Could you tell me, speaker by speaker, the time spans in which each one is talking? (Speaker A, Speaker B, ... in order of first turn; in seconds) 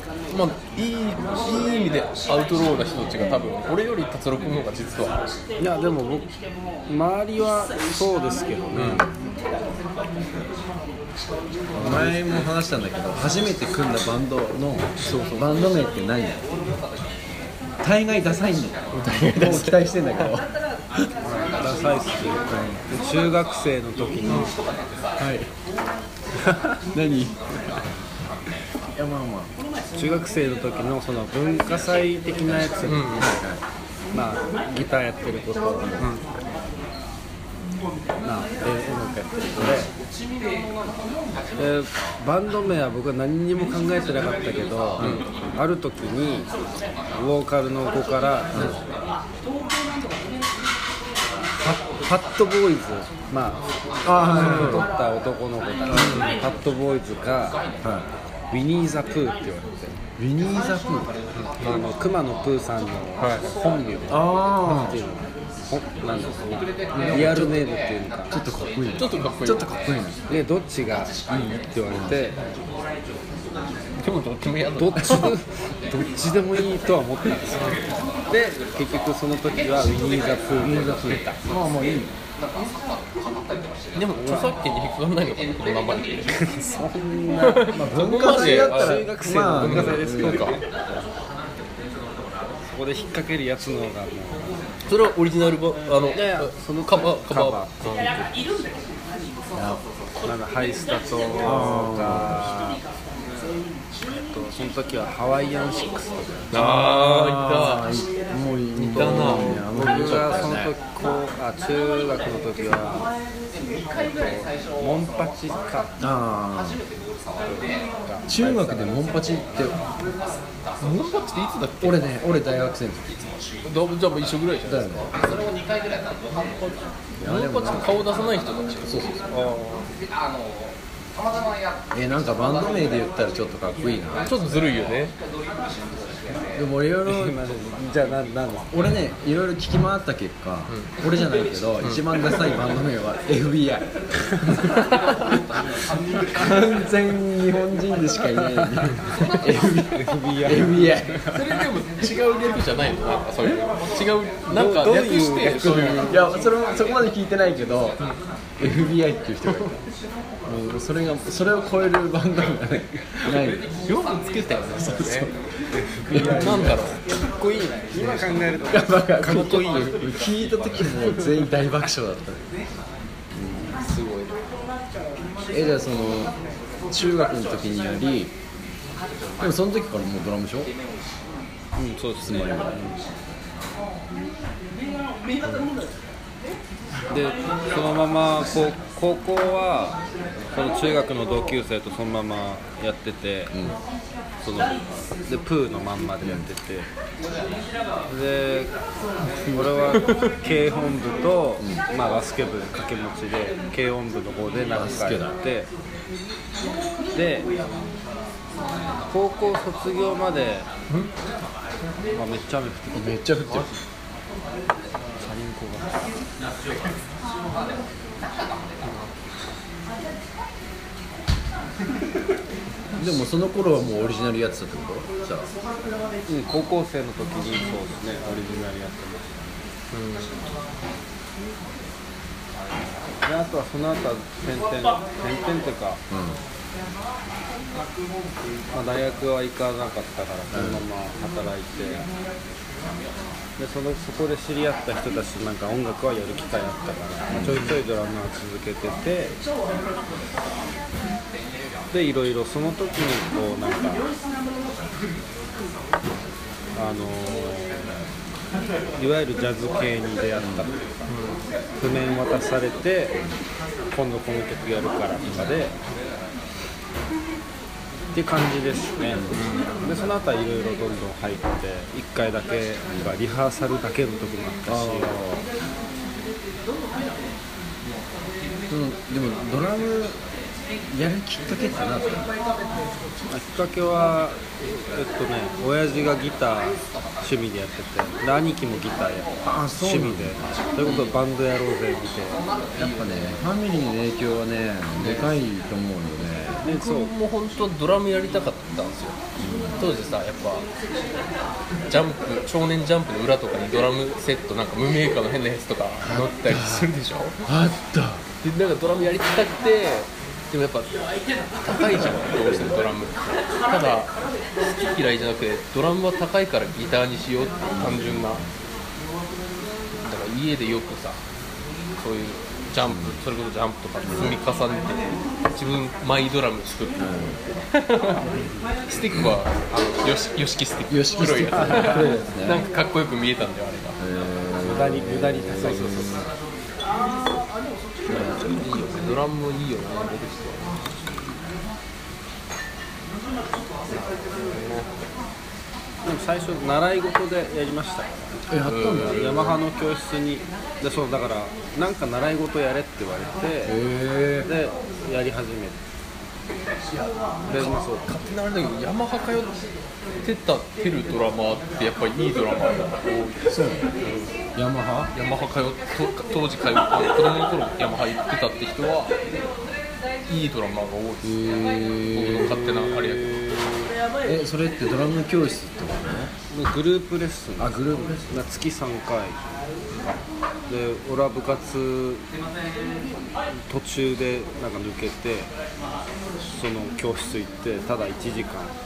Speaker A: 0.3-5.2, 8.7-9.0, 15.1-15.4, 18.9-20.3, 32.9-33.4, 45.0-45.2, 54.3-54.8, 55.9-56.3, 61.4-61.9, 63.2-63.4, 68.9-69.9, 74.0-75.3, 77.5-77.8, 83.9-86.4, 87.4-89.0, 89.6-90.6, 94.9-98.1, 106.5-107.9, 108.7-109.7, 120.8-122.0, 123.6-125.5, 126.3-129.5, 134.2-135.1, 140.7-140.9, 144.8-145.1, 151.3-156.2, 163.4-165.3, 166.2-167.0, 173.8-174.4, 199.9-200.3, 213.5-213.7, 229.9-230.4, 261.1-261.4, 269.3-269.9, 290.8-291.1, 296.6-299.2, 299.8-300.7, 301.9-307.5, 308.4-310.9, 311.6-318.4, 320.0-321.2, 322.0-325.0, 325.5-328.2, 328.9-334.0, 338.5-340.9, 343.9-344.9, 348.6-349.6, 356.9-359.7, 360.2-364.4, 365.1-369.1, 370.3-373.3
Speaker B: 5.6-6.3, 6.9-9.0, 11.8-12.2, 21.2-24.5, 29.9-33.2, 34.1-36.2, 38.2-39.9, 41.6-46.5, 47.1-48.8, 51.6-53.6, 54.2-57.6, 58.5-60.0, 61.6-68.3, 70.3-72.4, 74.8-81.4, 84.2-84.5, 86.3-87.7, 88.2-90.6, 92.7-94.6, 96.1-98.3, 100.2-102.8, 104.1-106.4, 109.0-113.1, 114.0-115.9, 117.5-119.0, 129.3-129.8, 137.1-138.7, 148.4-148.8, 149.9-151.6, 154.5-156.2, 165.9-170.2, 181.8-183.0, 187.1-190.0, 190.5-193.5, 194.4-196.9, 198.1-198.7, 199.5-205.7, 207.1-207.5, 209.1-210.7, 212.1-213.4, 215.2-216.1, 226.3-229.6, 233.2-236.0, 238.7-242.1, 243.6-249.3, 251.9-254.1, 256.8-257.9, 259.0-260.8, 261.8-263.2, 263.9-265.7, 268.1-275.1, 283.3-292.4, 296.6-297.1, 331.6-332.3, 334.6-336.3, 346.0-348.2, 349.0-353.8, 354.4-355.8, 357.5-358.1, 372.5-373.9, 376.5-379.4, 380.7-382.2, 383.7-385.5, 386.5-388.7
Speaker C: 8.8-9.1, 11.8-16.4, 17.8-20.5, 25.2-25.5, 26.9-27.8, 28.9-29.5, 32.5-33.6, 39.6-39.9, 45.0-45.2, 54.0-54.9, 57.8-58.1, 60.2-61.1, 64.1-65.0, 66.9-67.7, 68.3-70.2, 71.9-72.3, 80.6-82.1, 87.7-90.5, 99.5-99.8, 101.4-102.5, 106.5-110.7, 116.0-116.8, 118.3-119.8, 121.8-123.3, 124.6-125.1, 127.2-128.1, 131.9-135.0, 136.5-137.3, 138.7-144.8, 146.3-151.2, 155.6-158.0, 158.6-159.8, 160.4-163.6, 164.8-165.3, 166.1-166.8, 168.7-172.4, 173.3-173.7, 175.5-176.3, 176.9-178.3, 179.4-180.7, 182.2-182.8, 204.7-205.3, 212.9-213.8, 223.0-225.5, 236.1-236.4, 240.5-240.8, 247.3-247.8, 260.4-260.7, 269.1-270.1, 272.9-273.1, 274.6-275.4, 278.7-280.2, 280.9-282.3, 289.4-290.5, 292.8-296.6, 299.4-299.9, 306.0-306.9, 307.4-308.2, 312.1-312.9, 317.7-318.5, 322.8-323.2, 324.0-324.4, 327.0-327.4, 330.9-332.6, 334.0-336.2, 338.1-338.6, 348.5-349.3, 353.6-354.5, 363.5-363.9, 364.6-365.1, 371.2-372.6, 374.2-376.3, 377.6-378.4